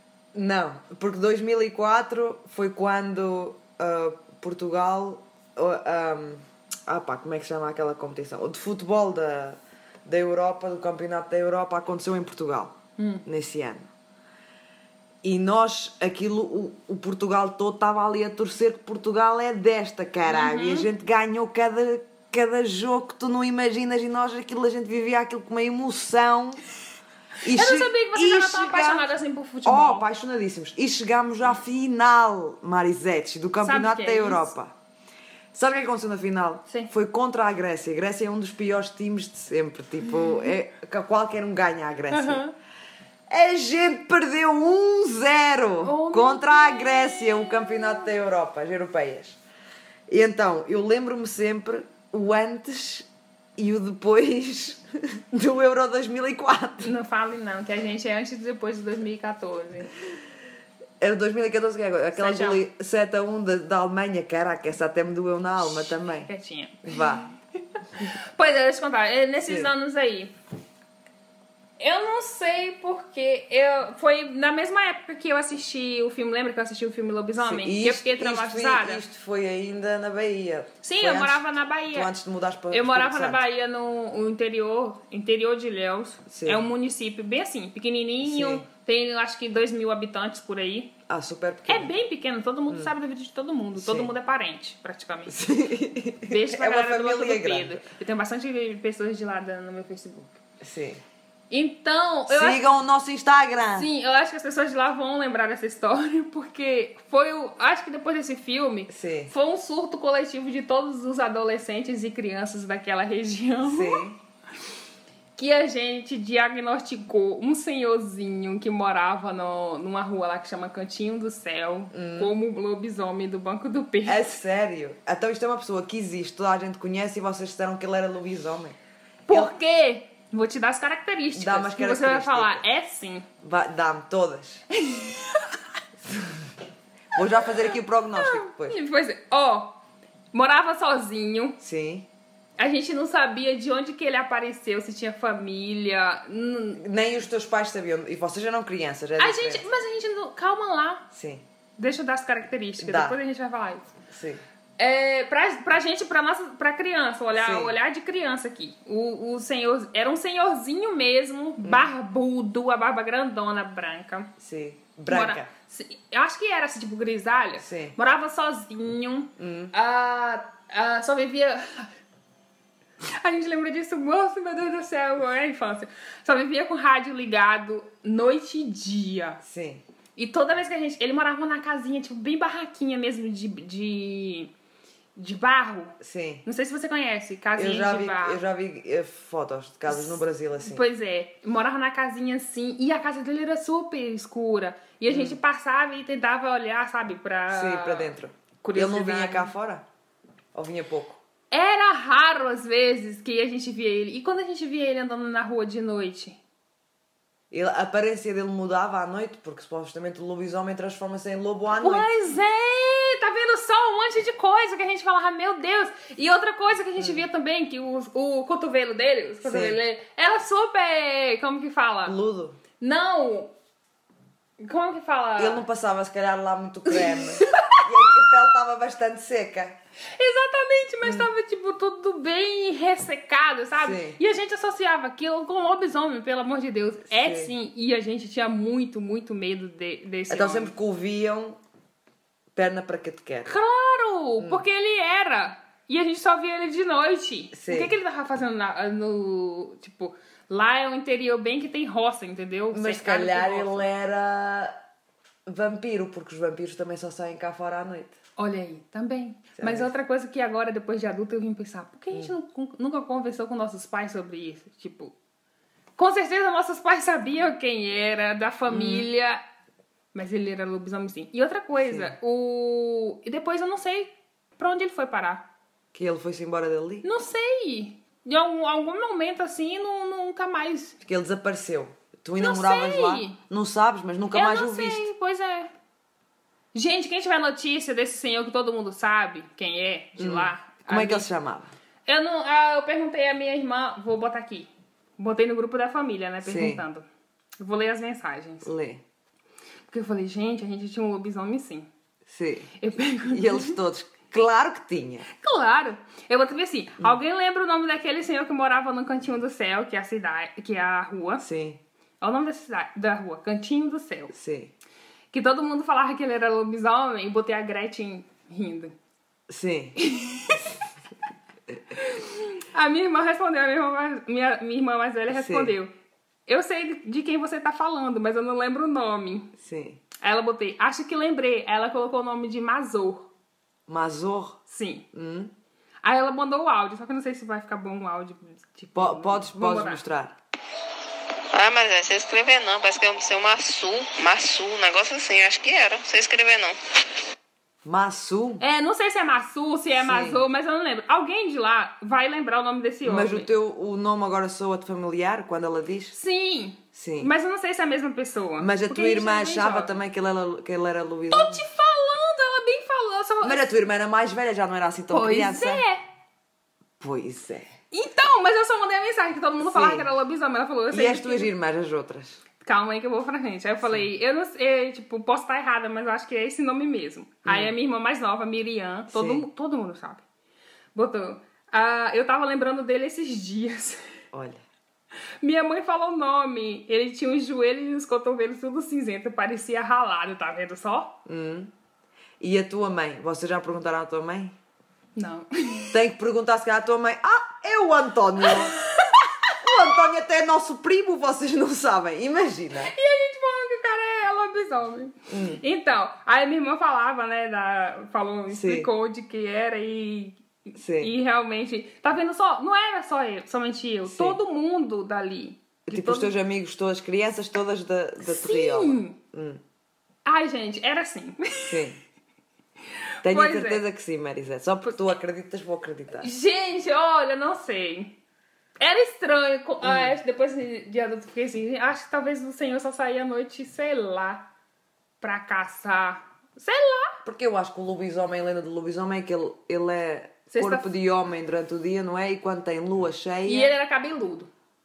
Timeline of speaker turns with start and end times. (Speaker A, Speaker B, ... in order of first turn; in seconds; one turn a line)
Speaker A: 0.3-13.9
Speaker B: 13.0-13.2
Speaker A: 15.2-26.6
Speaker B: 20.2-20.9
Speaker A: 27.4-29.1
Speaker B: 27.4-30.1
Speaker A: 29.6-34.7
Speaker B: 33.6-34.5
Speaker A: 35.5-42.4
Speaker B: 42.1-42.5
Speaker A: 43.3-49.4
Speaker B: 45.8-48.1
Speaker A: 50.1-56.9
Speaker B: 56.8-59.9
Speaker A: 61.0-66.3
Speaker B: 62.1-62.6
Speaker B: 66.2-67.3
Speaker A: 66.8-67.3
Speaker B: 68.0-70.3
Speaker B: 71.8-79.0
Speaker A: 77.3-83.4
Speaker B: 80.8-82.1
Speaker B: 82.7-90.9
Speaker A: 86.3-86.6
Speaker A: 88.2-88.7
Speaker A: 91.1-91.9
Speaker B: 91.7-95.4
Speaker A: 93.7-94.1
Speaker A: 95.3-97.8
Speaker B: 96.3-100.4
Speaker A: 100.6-101.0
Speaker B: 101.5-102.6
Speaker A: 102.3-103.9
Speaker B: 103.7-114.0
Speaker A: 108.9-109.3
Speaker A: 113.6-114.2
Speaker B: 115.3-124.3
Speaker A: 121.9-122.3
Speaker A: 124.0-128.8
Speaker B: 129.3-133.2
Speaker A: 131.3-132.6
Speaker A: 133.4-134.6
Speaker B: 134.7-135.6
Speaker A: 136.0-136.4
Speaker A: 137.1-138.7
Speaker B: 137.7-139.8
Speaker B: 140.3-141.6
Speaker A: 141.6-142.1
Speaker B: 142.6-146.8
Speaker A: 146.8-149.6
Speaker B: 149.2-151.1
Speaker A: 151.1-151.4
Speaker B: 151.8-153.9
Speaker A: 152.8-153.2
Speaker A: 154.1-154.4
Speaker B: 154.8-164.3
Speaker A: 157.3-157.8
Speaker A: 161.6-161.9
Speaker A: 164.4-165.5
Speaker B: 165.1-171.9
Speaker A: 167.6-168.0
Speaker A: 169.4-169.7
Speaker B: 173.0-179.4
Speaker A: 179.4-179.8
Speaker B: 180.2-184.5
Speaker B: 185.2-188.4
Speaker A: 186.0-186.4
Speaker A: 187.5-190.8
Speaker B: 189.9-199.5
Speaker A: 195.1-195.4
Speaker A: 197.5-199.8
Speaker A: 200.5-201.2
Speaker B: 201.5-206.4
Speaker A: 207.5-212.1
Speaker B: 211.8-222.2
Speaker A: 217.0-217.2
Speaker A: 219.4-219.8
Speaker A: 222.0-222.6
Speaker B: 222.8-223.5
Speaker B: 224.6-225.6
Speaker A: 225.4-229.8
Speaker B: 226.9-228.1
Speaker B: 230.2-240.7
Speaker A: 233.8-234.2
Speaker A: 237.1-237.5
Speaker A: 240.3-241.6
Speaker A: 242.5-243.5
Speaker B: 243.4-253.9
Speaker A: 247.5-247.9
Speaker A: 252.7-254.8
Speaker A: 255.4-258.1
Speaker B: 258.4-265.1
Speaker A: 259.6-259.9
Speaker B: 266.0-269.4
Speaker A: 268.7-269.1
Speaker B: 270.1-275.4
Speaker A: 271.7-272.1
Speaker A: 275.9-277.1
Speaker B: 277.0-281.0
Speaker A: 281.0-285.1
Speaker B: 282.4-283.4
Speaker B: 284.3-285.7
Speaker B: 286.7-291.3
Speaker A: 290.2-291.7
Speaker B: 292.1-297.1
Speaker A: 296.4-296.8
Speaker B: 297.6-298.7
Speaker A: 298.6-299.0
Speaker B: 299.9-301.9
Speaker A: 302.3-305.3
Speaker B: 302.8-303.8
Speaker B: 305.3-311.4
Speaker A: 311.4-311.8
Speaker B: 312.2-314.3
Speaker A: 314.3-314.7
Speaker B: 315.3-318.9
Speaker A: 319.5-320.7
Speaker B: 320.0-320.7
Speaker B: 321.9-325.9
Speaker A: 325.3-325.7
Speaker B: 326.5-329.5
Speaker A: 329.6-330.0
Speaker B: 330.2-333.3
Speaker A: 333.9-334.6
Speaker B: 334.7-335.0
Speaker A: 335.1-335.5
Speaker B: 336.0-340.0
Speaker A: 338.9-340.4
Speaker C: 341.5-346.8
Speaker A: 347.8-348.6
Speaker B: 348.6-353.5
Speaker A: 350.0-350.4
Speaker A: 353.0-356.1
Speaker B: 356.1-359.9
Speaker A: 356.9-357.3
Speaker A: 358.6-361.6
Speaker B: 361.3-363.7
Speaker A: 363.4-365.8
Speaker B: 365.1-366.0
Speaker A: 367.0-367.7
Speaker B: 367.9-371.5
Speaker A: 369.6-370.1
Speaker A: 370.9-372.4
Speaker B: 372.6-380.2
Speaker A: 377.4-377.7
Speaker A: 379.1-379.4
Speaker B: 380.9-384.0
Speaker A: 384.3-384.6
Speaker B: 385.4-391.2
Speaker A: 391.2-391.7
Speaker A: 392.4-394.6
Speaker B: 395.1-395.9
Speaker A: 395.9-402.9
Speaker B: 398.4-399.2
Speaker B: 402.8-416.3
Speaker A: 405.3-405.6
Speaker A: 408.5-408.9
Speaker A: 410.8-411.1
Speaker A: 414.1-414.4
Speaker A: 415.9-419.6
Speaker B: 418.2-419.2
Speaker B: 420.2-421.8
Speaker A: 421.7-422.0
Speaker B: 423.2-423.8
Speaker A: 423.2-426.3
Speaker B: 426.2-428.1
Speaker B: 428.8-434.5
Speaker A: 429.8-430.2
Speaker B: 435.2-437.2
Speaker A: 437.2-443.7
Speaker B: 440.5-440.9
Speaker B: 443.4-444.5